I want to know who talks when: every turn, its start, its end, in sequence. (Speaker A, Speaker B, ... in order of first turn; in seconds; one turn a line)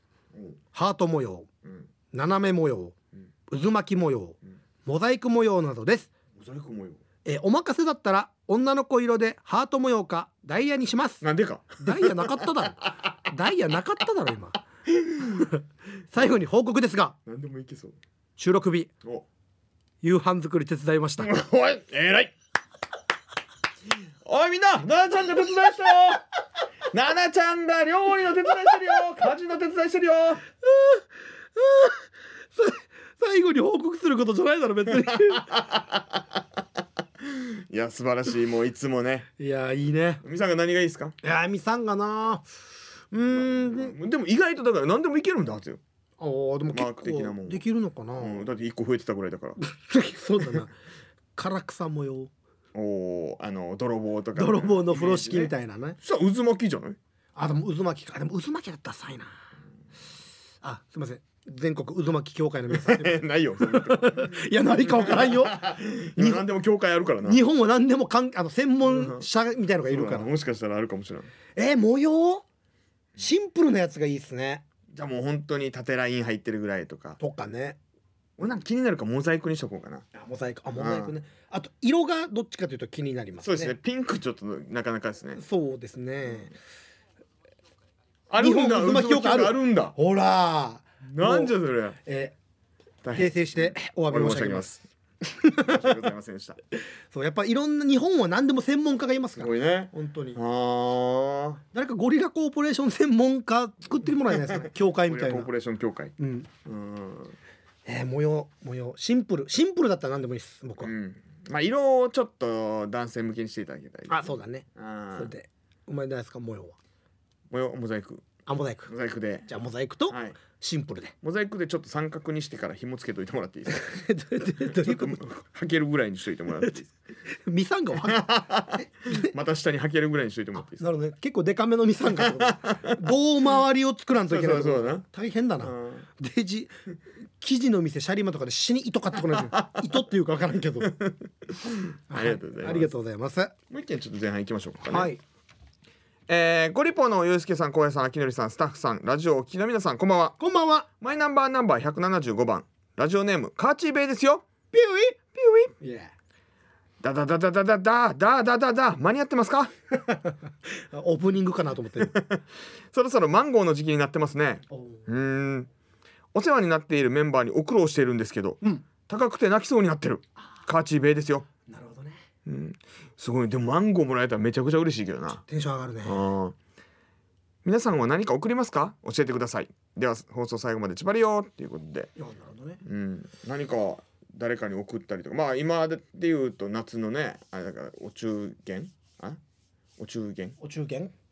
Speaker A: 0.7-1.5
Speaker A: 2.1-3.0
Speaker A: 3.5-6.1
Speaker B: 6.4-7.0
Speaker A: 7.2-11.2
Speaker B: 11.2-12.4
Speaker A: 11.8-14.6
Speaker A: 15.2-17.2
Speaker B: 17.3-18.0
Speaker A: 18.4-18.9
Speaker A: 20.0-21.3
Speaker B: 21.2-22.3
Speaker B: 24.2-26.2
Speaker B: 26.9-30.4
Speaker A: 30.6-31.0
Speaker A: 31.6-32.0
Speaker A: 32.6-35.6
Speaker B: 35.1-36.2
Speaker B: 37.2-39.3
Speaker A: 39.4-40.2
Speaker B: 40.2-41.2
Speaker A: 41.2-42.5
Speaker A: 43.1-44.0
Speaker B: 43.3-45.8
Speaker A: 46.2-48.5
Speaker B: 46.7-47.6
Speaker B: 48.2-49.6
Speaker A: 49.6-50.8
Speaker A: 51.4-52.3
Speaker B: 52.7-57.0
Speaker A: 54.4-56.0
Speaker A: 57.4-59.4
Speaker A: 60.6-65.6
Speaker B: 62.7-67.4
Speaker A: 66.2-66.5
Speaker A: 67.2-70.3
Speaker B: 68.8-69.3
Speaker B: 69.9-71.3
Speaker A: 71.6-72.4
Speaker A: 73.2-74.7
Speaker B: 74.9-77.2
Speaker A: 77.2-77.8
Speaker B: 78.4-80.1
Speaker A: 80.1-83.8
Speaker B: 80.8-81.1
Speaker B: 83.4-85.4
Speaker A: 85.3-86.5
Speaker B: 88.3-90.0
Speaker A: 88.4-91.5
Speaker B: 91.0-92.0
Speaker A: 92.0-92.3
Speaker B: 93.0-94.8
Speaker A: 93.2-94.7
Speaker A: 95.2-96.1
Speaker B: 95.6-96.6
Speaker A: 97.1-100.4
Speaker B: 99.4-101.6
Speaker A: 101.7-105.5
Speaker B: 104.5-107.4
Speaker A: 106.2-106.5
Speaker A: 107.9-110.9
Speaker B: 110.8-115.3
Speaker A: 114.1-116.8
Speaker B: 117.5-118.3
Speaker A: 118.5-118.9
Speaker B: 118.9-119.5
Speaker A: 119.5-121.1
Speaker B: 120.1-120.4
Speaker B: 121.2-123.9
Speaker A: 123.7-125.3
Speaker B: 124.6-126.9
Speaker A: 126.6-129.3
Speaker B: 128.0-130.8
Speaker A: 130.6-136.7
Speaker B: 132.1-133.1
Speaker B: 134.3-135.0
Speaker B: 135.6-136.0
Speaker A: 137.4-141.0
Speaker B: 139.3-139.8
Speaker B: 140.9-142.9
Speaker A: 142.1-143.5
Speaker B: 143.7-145.1
Speaker A: 144.9-145.2
Speaker B: 146.3-150.4
Speaker A: 150.4-150.9
Speaker B: 151.0-154.5
Speaker A: 154.7-156.1
Speaker B: 157.0-159.7
Speaker A: 160.1-162.2
Speaker B: 162.0-165.7
Speaker A: 164.7-165.1
Speaker B: 166.3-171.5
Speaker A: 171.7-172.2
Speaker B: 172.5-175.4
Speaker A: 175.5-176.2
Speaker B: 176.0-176.6
Speaker B: 177.6-182.1
Speaker A: 182.2-182.8
Speaker B: 182.8-189.4
Speaker B: 190.0-190.6
Speaker A: 190.6-191.1